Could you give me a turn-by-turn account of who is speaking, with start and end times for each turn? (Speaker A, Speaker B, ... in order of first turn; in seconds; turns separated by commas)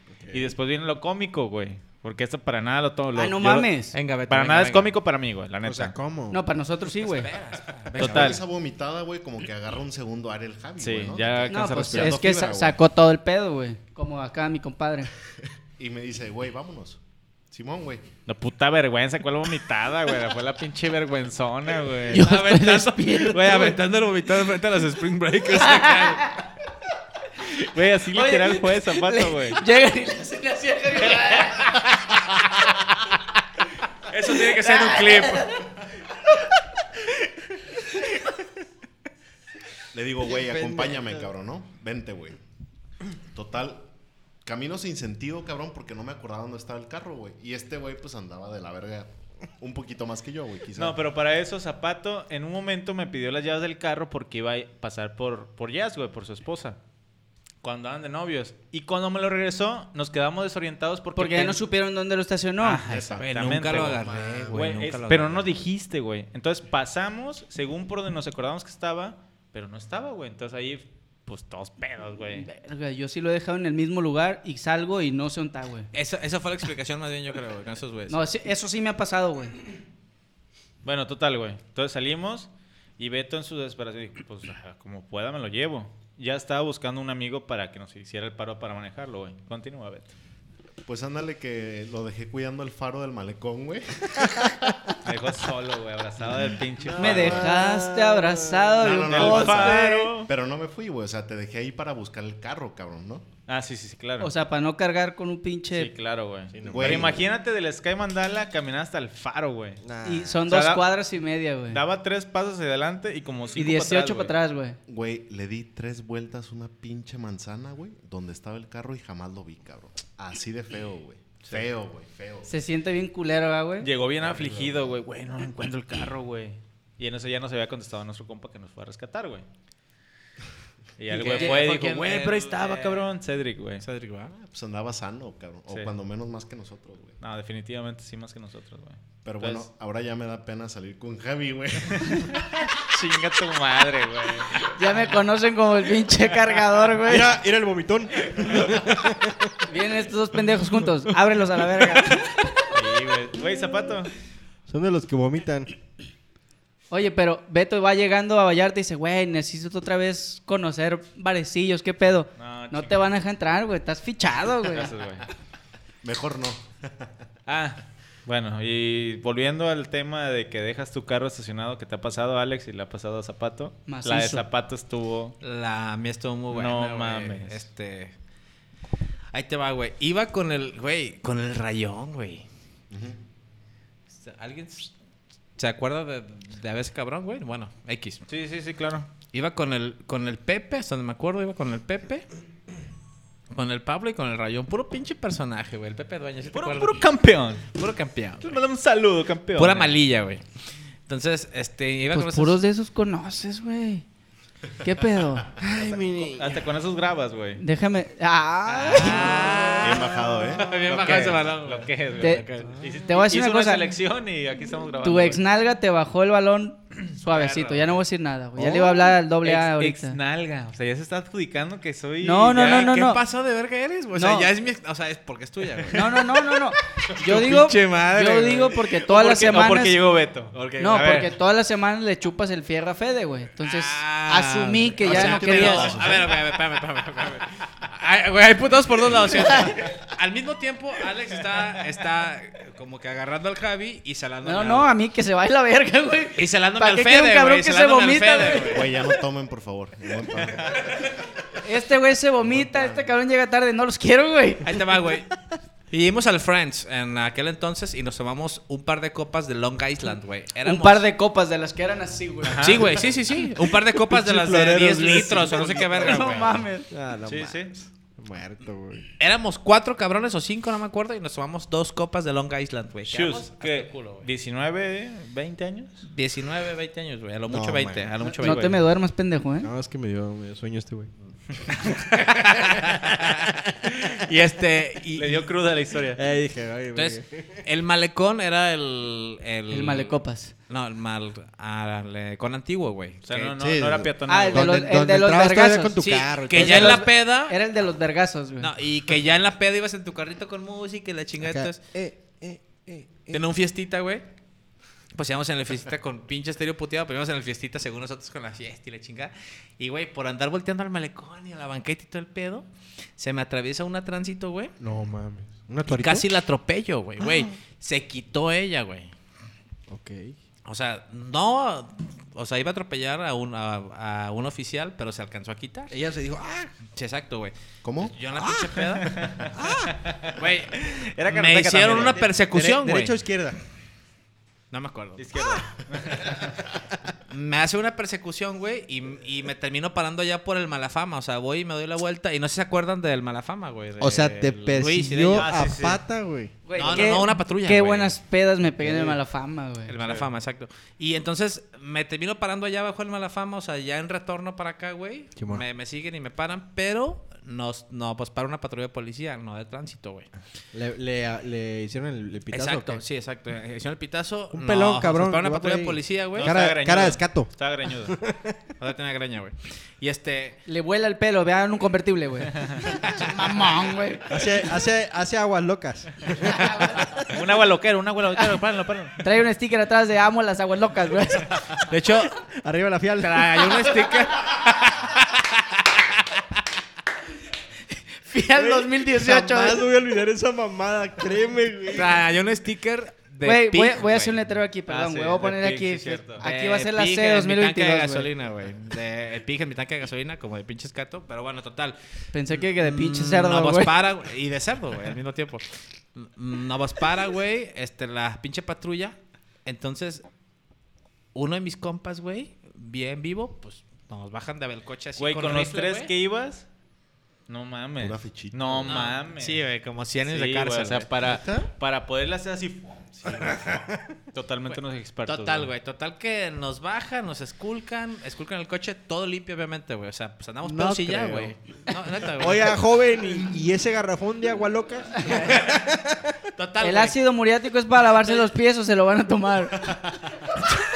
Speaker A: 0.2-0.5, Speaker B: 0.3-3.7, Speaker C: 3.1-3.9, Speaker D: 3.9-4.9, Speaker B: 4.3-6.0, Speaker A: 5.6-6.4, Speaker C: 6.3-7.3, Speaker D: 7.0-8.4, Speaker B: 8.0-8.4, Speaker E: 8.0-12.8, Speaker B: 10.8-12.2, Speaker C: 11.5-15.1, Speaker E: 15.4-18.1, Speaker B: 18.2-22.4, Speaker C: 22.1-23.6, Speaker D: 22.1-26.3, Speaker B: 23.3-23.8, Speaker C: 25.6-26.4, Speaker B: 27.5-29.6, Speaker C: 28.1-31.8, Speaker D: 34.1-35.5, Speaker C: 34.5-35.6, Speaker E: 39.9-42.4, Speaker A: 40.2-41.3, Speaker E: 43.3-43.8, Speaker E: 44.4-51.0, Speaker B: 50.7-56.8, Speaker B: 57.6-61.6, Speaker C: 61.1-62.8, Speaker B: 62.6-72.5, Speaker E: 62.9-63.2, Speaker D: 63.2-65.5, Speaker E: 64.0-64.5, Speaker C: 72.3-75.9, Speaker D: 75.9-78.2, Speaker C: 78.1-79.6, Speaker B: 80.8-90.1, Speaker E: 90.8-95.0, Speaker B: 95.0-97.5, Speaker C: 96.9-100.2, Speaker E: 97.0-97.5, Speaker A: 97.1-98.8, Speaker E: 98.8-103.3, Speaker B: 98.8-100.3, Speaker B: 103.5-104.3, Speaker C: 104.2-105.9, Speaker B: 105.7-109.8, Speaker A: 106.5-107.2, Speaker E: 106.7-107.3, Speaker A: 109.8-110.4, Speaker C: 110.0-111.8, Speaker B: 110.4-110.9, Speaker B: 111.7-114.3, Speaker C: 113.5-114.8, Speaker E: 114.9-122.5, Speaker C: 122.5-123.9, Speaker B: 123.8-129.4, Speaker E: 124.2-124.8, Speaker B: 131.0-133.8, Speaker D: 131.1-133.1, Speaker D: 133.8-134.3, Speaker E: 134.3-137.2, Speaker B: 137.2-139.7, Speaker E: 139.2-142.4, Speaker B: 141.9-144.8, Speaker C: 144.7-147.3, Speaker A: 147.0-149.6, Speaker B: 148.3-148.7, Speaker C: 149.7-152.6, Speaker B: 152.7-154.1, Speaker A: 154.7-155.7, Speaker C: 156.9-164.9, Speaker B: 162.4-163.0, Speaker B: 164.7-165.2, Speaker E: 166.0-167.1, Speaker B: 167.4-175.3, Speaker C: 173.9-174.4, Speaker D: 175.4-178.1, Speaker B: 176.5-177.6, Speaker D: 179.3-182.4, Speaker E: 182.9-183.2, Speaker D: 184.2-184.9, Speaker D: 185.6-188.2, Speaker B: 188.3-189.1, Speaker D: 189.3-192.2, Speaker D: 193.5-197.0, Speaker B: 196.5-197.8, Speaker D: 197.7-198.6, Speaker B: 198.4-199.9, Speaker D: 199.6-200.4, Speaker D: 201.1-202.6, Speaker C: 202.1-204.0, Speaker C: 204.8-205.5, Speaker A: 205.6-206.5, Speaker D: 205.7-206.4, Speaker B: 206.4-207.6, Speaker C: 207.6-209.7, Speaker D: 208.7-212.7, Speaker E: 209.8-210.9, Speaker B: 210.9-215.4, Speaker C: 213.1-213.9, Speaker C: 215.0-220.2, Speaker D: 217.3-217.7, Speaker A: 218.6-219.0, Speaker B: 219.4-222.8, Speaker C: 222.2-223.2, Speaker D: 222.5-228.8, Speaker C: 224.2-224.5, Speaker C: 225.9-230.0, Speaker B: 228.9-231.3, Speaker D: 230.5-231.1, Speaker C: 230.8-236.2, Speaker D: 233.6-244.9, Speaker E: 235.1-236.3, Speaker B: 235.4-236.0, Speaker C: 239.4-239.8, Speaker C: 244.4-248.9, Speaker D: 246.4-248.9, Speaker E: 248.7-251.1, Speaker C: 251.5-254.8, Speaker E: 252.6-252.9, Speaker D: 254.6-255.3, Speaker D: 255.9-261.1, Speaker C: 260.6-262.8, Speaker B: 262.4-262.9, Speaker D: 262.6-266.6, Speaker A: 263.8-266.3, Speaker C: 266.0-266.9, Speaker A: 266.9-269.1, Speaker B: 267.2-267.7, Speaker D: 269.2-274.3, Speaker B: 273.1-276.0, Speaker D: 276.1-278.8, Speaker A: 277.5-278.1, Speaker C: 278.2-279.7, Speaker B: 278.4-278.8, Speaker A: 279.6-281.1, Speaker D: 282.1-285.4, Speaker A: 282.4-283.9, Speaker B: 285.1-286.2, Speaker A: 286.1-287.6, Speaker D: 286.9-290.1, Speaker C: 289.7-290.5, Speaker D: 290.7-293.5, Speaker B: 293.2-294.7, Speaker A: 293.6-297.0, Speaker C: 294.3-298.7, Speaker D: 296.0-297.5, Speaker D: 298.6-301.8, Speaker A: 301.4-303.4, Speaker D: 303.3-304.2, Speaker D: 305.1-312.6, Speaker D: 313.2-314.7, Speaker A: 314.8-316.3, Speaker D: 315.9-319.1, Speaker A: 319.9-320.3, Speaker D: 320.6-325.9, Speaker A: 325.9-326.7, Speaker D: 326.9-329.1, Speaker E: 327.8-328.1, Speaker A: 328.4-328.8, Speaker B: 329.1-332.3, Speaker A: 329.5-330.0, Speaker D: 330.4-333.2, Speaker A: 332.3-333.6, Speaker D: 334.7-335.6, Speaker B: 335.2-336.6, Speaker D: 337.3-345.6, Speaker A: 344.0-346.5, Speaker B: 345.3-346.0, Speaker C: 346.6-349.9, Speaker D: 346.8-348.2, Speaker A: 348.8-349.2, Speaker D: 349.9-360.3, Speaker B: 350.0-350.3, Speaker A: 355.4-355.6, Speaker A: 360.7-363.0, Speaker D: 362.5-366.6, Speaker A: 364.5-368.6, Speaker B: 366.3-368.2, Speaker D: 368.8-370.6, Speaker C: 370.6-374.5, Speaker B: 372.5-372.8, Speaker A: 374.3-377.3, Speaker C: 376.6-377.0, Speaker B: 377.3-379.2, Speaker C: 379.2-381.7, Speaker D: 381.9-382.4, Speaker A: 382.5-383.9, Speaker D: 383.2-386.4, Speaker C: 387.9-389.8, Speaker A: 388.5-392.2, Speaker D: 391.9-394.4, Speaker C: 393.4-398.3, Speaker B: 394.9-396.4, Speaker D: 396.4-401.9, Speaker C: 402.3-404.0, Speaker D: 402.5-410.2, Speaker D: 411.3-416.1, Speaker B: 415.2-416.7, Speaker B: 417.5-419.6, Speaker E: 418.0-419.0, Speaker D: 418.9-421.1, Speaker B: 420.2-423.5, Speaker A: 421.3-421.7, Speaker E: 423.2-423.7, Speaker B: 424.3-425.7, Speaker D: 424.7-432.8, Speaker A: 430.6-431.6, Speaker A: 432.4-436.4, Speaker C: 435.1-435.5, Speaker D: 436.6-437.2, Speaker C: 436.8-440.0